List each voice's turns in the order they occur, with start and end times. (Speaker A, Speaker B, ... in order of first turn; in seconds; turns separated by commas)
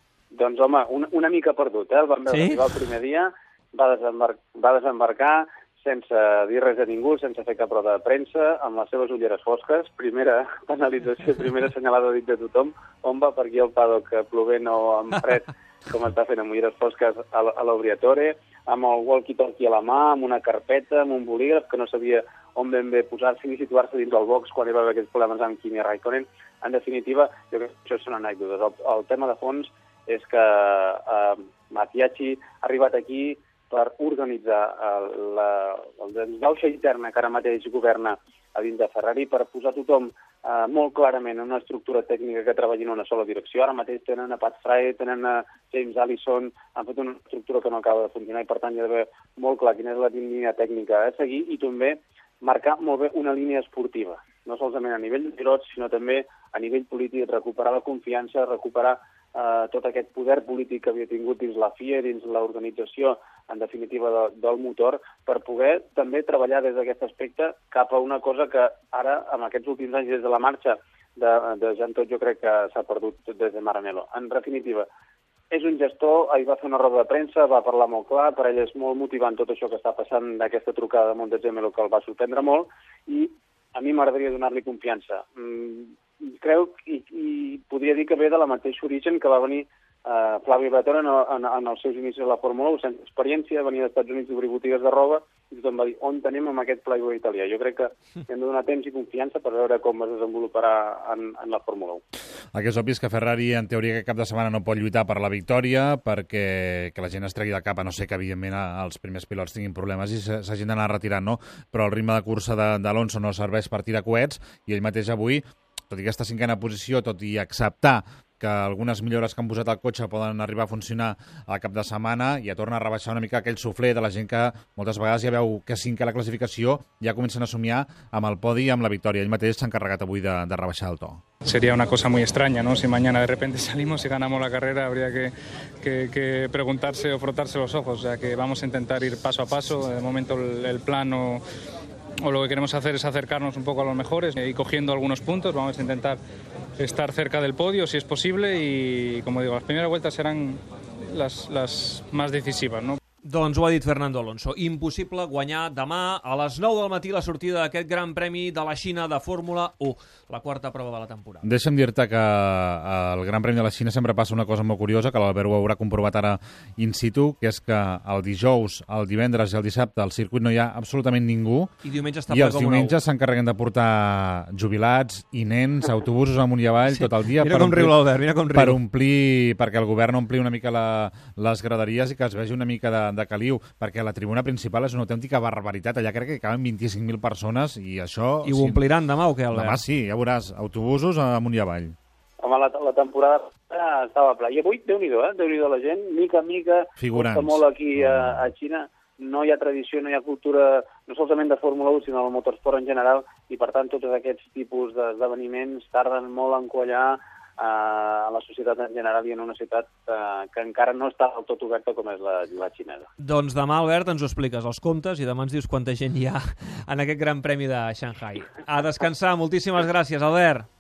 Speaker A: 0.3-74.9, Speaker B: 2.3-2.8, Speaker A: 75.5-102.0, Speaker C: 102.5-131.2, Speaker D: 131.5-141.4, Speaker D: 142.2-146.2, Speaker D: 146.8-153.0, Speaker B: 153.2-161.5, Speaker C: 161.4-171.7, Speaker B: 171.8-173.0, Speaker C: 172.3-177.9, Speaker B: 176.9-178.8, Speaker C: 178.5-188.8, Speaker B: 188.4-189.8, Speaker C: 189.5-192.0, Speaker A: 192.4-213.1, Speaker C: 197.0-198.5, Speaker B: 213.2-220.7